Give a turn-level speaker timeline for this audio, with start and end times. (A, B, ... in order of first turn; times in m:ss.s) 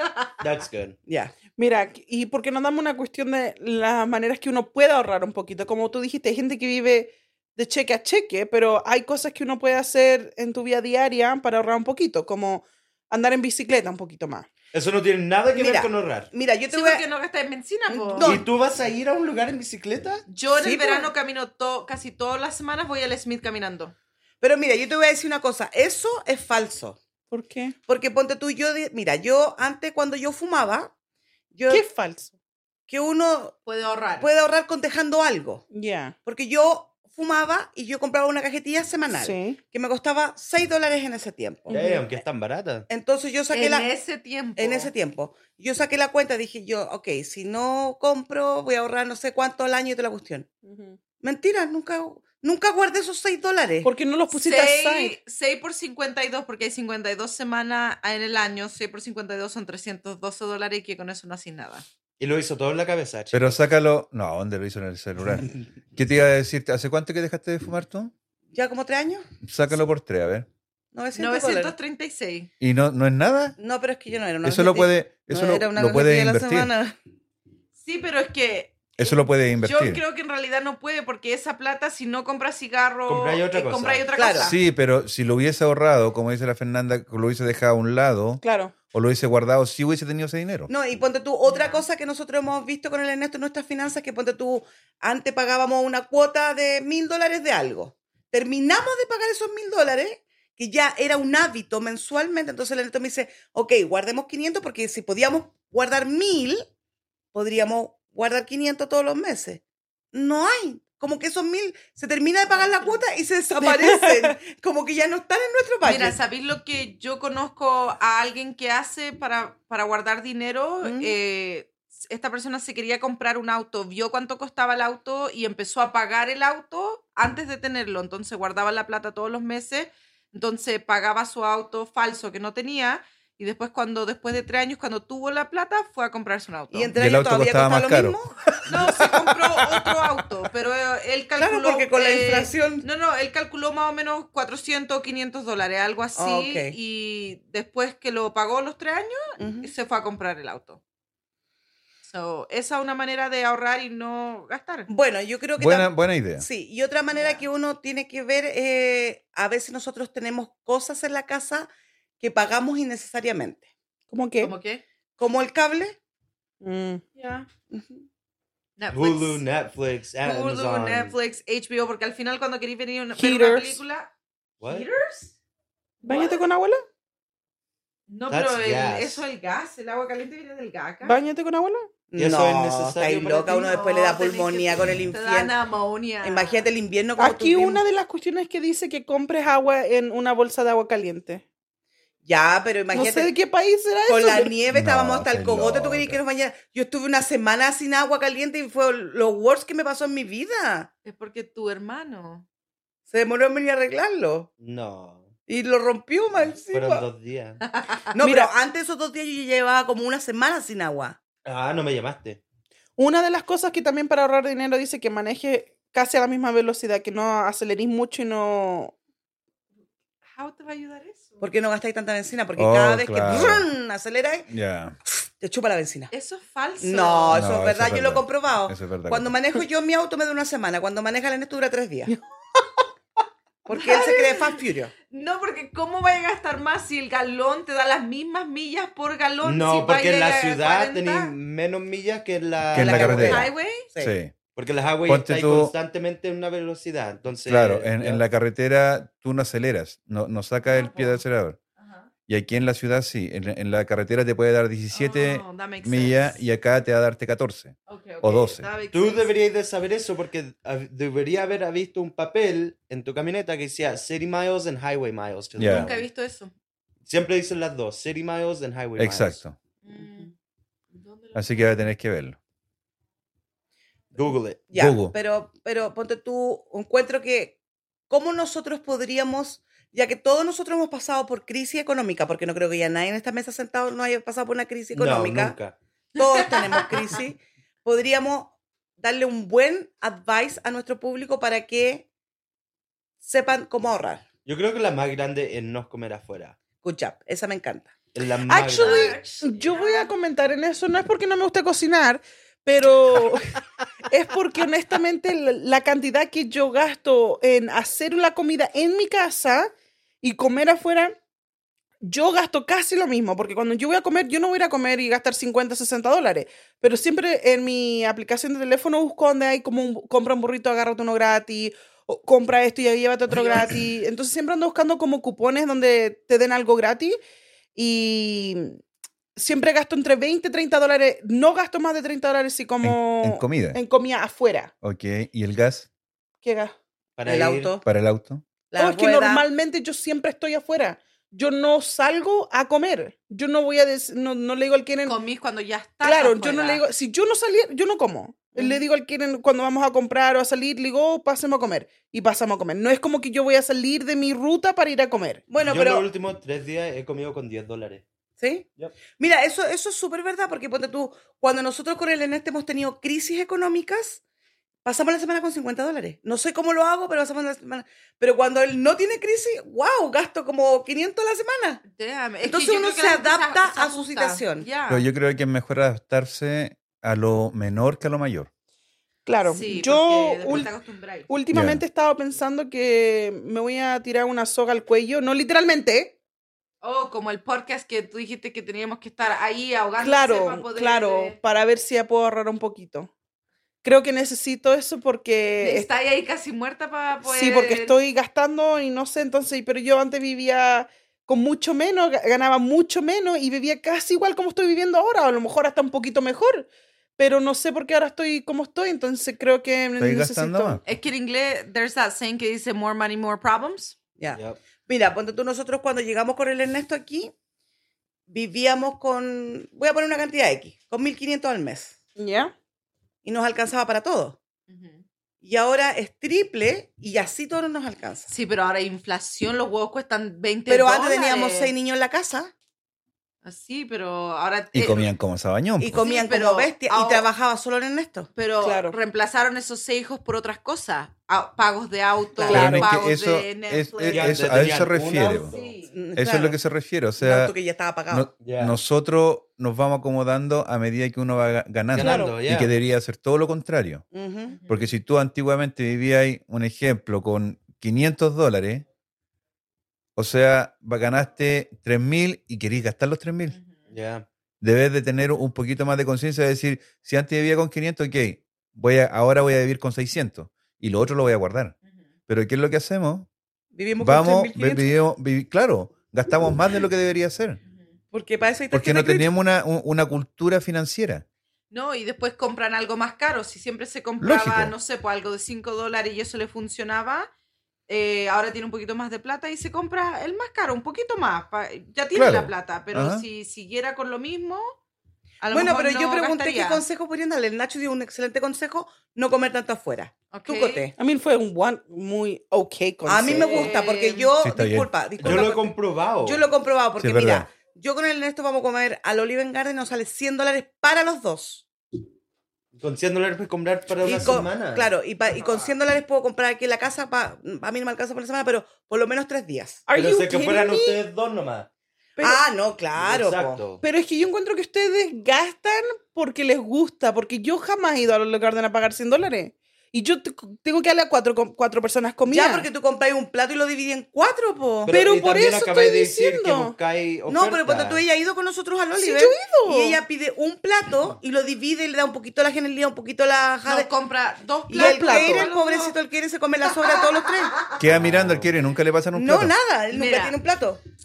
0:00.4-0:01.0 A
0:01.1-0:01.3 B
0:01.6-0:14.5 C
0:14.7-0:16.3 A
0:15.5-0:17.0 B
0:16.7-0:18.4 D
0:17.9-0:18.5 B
0:18.2-0:20.2 A
0:20.3-0:23.9 D
0:20.6-0:21.1 B
0:24.4-0:27.0 B
0:27.3-0:27.8 C
0:27.9-0:30.9 B
0:31.5-0:31.8 B
0:31.7-0:32.3 C
0:32.9-0:33.5 B
0:33.6-0:34.3 D
0:34.2-0:35.6 B
0:35.7-0:36.1 C
0:36.2-0:41.8 B
0:39.1-0:39.6 C
0:41.7-0:42.8 A
0:41.7-0:42.0 C
0:42.9-0:43.9 B
0:43.5-0:44.9 D
0:44.6-0:50.5 B
0:50.6-0:51.0 C
0:51.2-0:53.9 B
0:53.8-0:55.1 C
0:54.3-1:01.8 D
1:02.2-1:03.6 A
1:03.3-1:08.1 E
1:08.5-1:09.2 B
1:09.4-1:10.5 E
1:10.9-1:11.7 B
1:11.1-1:12.5 D
1:12.6-1:13.6 E
1:13.6-1:16.9 B
1:14.4-1:16.7 E
1:17.8-1:24.6 D
1:19.0-1:20.0 E
1:23.1-1:24.1 A
1:24.1-1:24.5 B
1:24.4-1:30.7 E
1:28.4-1:28.7 C
1:30.7-1:46.6 B
1:31.4-1:31.8 D
1:47.3-1:49.6 B
1:50.1-1:56.2 B
1:52.5-1:53.0 D
1:53.6-1:54.3 C
1:55.8-2:16.9 D
2:00.8-2:01.1 B
2:16.7-2:18.3 B
2:16.9-2:18.2 E
2:18.7-2:30.8 D
2:21.4-2:22.8 B
2:26.2-2:26.7 B
2:29.4-2:29.7 B
2:32.0-2:34.9 D
2:34.9-2:41.7 B
2:35.6-2:36.4 E
2:37.1-2:37.4 D
2:42.2-2:43.6 B
2:44.1-2:44.5 C
2:44.4-2:44.8 D
2:45.2-2:46.0 B
2:46.6-2:47.1 C
2:47.2-2:47.4 D
2:47.7-2:48.0 B
2:48.8-2:49.4 D
2:48.9-2:51.1 A
2:50.2-2:54.1 D
2:53.1-2:53.8 C
2:54.6-2:54.8 A
2:54.6-2:55.3 D
2:56.0-2:56.4 D
2:56.0-2:56.8 C
2:58.1-3:01.2 D
2:58.3-2:59.2 A
3:01.0-3:01.9 C
3:02.1-3:05.5 B
3:02.2-3:03.7 A
3:03.5-3:06.6 D
3:06.2-3:07.8 B
3:07.2-3:11.4 C
3:12.2-3:13.3 B
3:12.9-3:14.5 C
3:14.1-3:20.9 B
3:14.7-3:16.2 E
3:21.0-3:22.4 D
3:23.1-3:24.5 B
3:24.6-3:25.3 A
3:25.5-3:27.1 B
3:26.6-3:27.6 A
3:27.6-3:28.0 D
3:28.1-3:31.2 B
3:28.2-3:28.5 C
3:31.4-3:32.4 A
3:33.0-3:38.9 C
3:40.3-3:41.4 D
3:41.4-3:44.5 B
3:42.6-3:43.7 E
3:44.5-3:45.0 E
3:45.1-3:46.1 B
3:46.1-3:47.5 D
3:46.8-3:52.1 B
3:47.3-3:49.3 E
3:52.1-3:52.8 C
3:53.6-3:54.9 B
3:53.7-4:01.3 D
3:59.4-4:03.4 A
4:02.6-4:04.3 E
4:02.7-4:04.1 B
4:02.9-4:03.9 D
4:04.5-4:08.2 A
4:05.0-4:05.7 E
4:07.4-4:11.6 E
4:10.6-4:11.2 D
4:11.8-4:12.1 D
4:12.3-4:18.7 E
4:14.9-4:16.4 D
4:17.9-4:19.3 D
4:18.9-4:26.0 A
4:25.6-4:25.9 E
4:25.6-4:26.5 D
4:27.0-4:29.4 A
4:29.0-4:29.6 E
4:29.8-4:30.3 D
4:30.9-4:31.7 D
4:31.3-4:32.4 E
4:34.1-4:34.7 A
4:34.7-4:37.6 B
4:34.7-4:35.1 E
4:38.1-4:45.6 B
4:44.9-4:45.8 A
4:46.2-4:52.1 B
4:46.2-4:47.0 D
4:53.2-4:54.2 B
4:54.4-4:56.6 A
4:56.8-4:57.9 B
4:58.1-4:59.2 A
4:58.4-5:03.6 C
4:58.8-5:00.1 D
5:04.1-5:09.7 C
5:10.2-5:11.2 C
5:12.0-5:27.2 C
5:23.3-5:23.7 D
5:27.8-5:28.8 C
5:29.4-5:34.7 C
5:32.8-5:33.8 E
5:34.8-5:35.9 E
5:36.4-5:36.7 C
5:37.2-5:37.7 A
5:37.2-5:37.8 B
5:37.8-5:38.4 E
5:38.7-5:39.4 B
5:38.8-5:45.2 C
5:45.0-5:46.8 D
5:46.0-5:55.4 C
5:48.6-5:48.8 B
5:55.5-5:56.1 B
5:55.6-5:58.0 A
5:58.4-6:04.2 B
6:04.8-6:11.8 B
6:11.8-6:15.1 D
6:12.4-6:14.7 B
6:14.9-6:18.5 E
6:19.2-6:20.7 C
6:19.4-6:21.3 D
6:21.3-6:26.2 C
6:21.5-6:21.8 E
6:26.8-6:31.4 D
6:30.0-6:33.1 C
6:33.8-6:35.9 C
6:35.6-6:37.9 D
6:37.2-6:50.8 C
6:50.0-6:50.8 E
6:50.8-6:54.0 D
6:54.2-6:57.3 B
6:54.4-6:54.6 A
6:58.3-7:01.9 B
7:02.2-7:02.5 C
7:03.2-7:04.4 B
7:04.7-7:05.0 D
7:05.4-7:08.3 B
7:08.3-7:11.7 D
7:10.7-7:12.5 B
7:13.4-7:15.1 D
7:14.7-7:16.1 E
7:15.8-7:18.3 B
7:15.9-7:17.3 D
7:18.3-7:24.4 D
7:18.6-7:18.9 C
7:22.4-7:22.9 C
7:22.5-7:25.5 E
7:24.1-7:25.8 A
7:25.4-7:25.9 D
7:25.9-7:26.6 B
7:26.2-7:27.5 E
7:27.2-7:28.3 B
7:28.1-7:34.0 E
7:28.4-7:28.8 A
7:31.9-7:32.7 A
7:32.0-7:32.4 C
7:34.1-7:34.6 B
7:34.5-7:34.8 D
7:34.7-7:38.8 E
7:40.2-7:43.6 E
7:43.9-7:44.2 A
7:44.6-7:51.7 E
7:52.3-7:53.3 E
7:53.7-7:54.9 B
7:54.0-7:57.6 E
7:58.1-7:59.3 B
7:58.7-8:01.2 E
8:01.7-8:07.3 D
8:04.2-8:04.7 E
8:07.9-8:14.7 D
8:12.1-8:13.2 E
8:15.4-8:16.8 D
8:15.5-8:20.9 B
8:20.3-8:20.8 D
8:21.0-8:23.7 C
8:23.0-8:31.6 B
8:23.4-8:24.3 D
8:24.4-8:25.5 E
8:25.2-8:26.4 A
8:27.0-8:27.5 E
8:32.7-8:35.7 A
8:34.0-8:39.8 B
8:39.9-8:41.0 C
8:39.9-8:41.7 A
8:42.2-8:43.6 B
8:43.0-8:43.8 A
8:43.8-8:52.7 C
8:52.3-8:55.0 B
8:54.8-8:58.0 A
8:54.9-8:56.7 C
8:57.3-9:03.9 B
8:59.0-9:00.0 C
9:03.6-9:06.0 D
9:04.7-9:07.7 B
9:04.7-9:05.5 C
9:06.7-9:07.8 D
9:07.8-9:09.5 E
9:07.8-9:08.6 A
9:09.1-9:10.8 B
9:09.9-9:10.4 D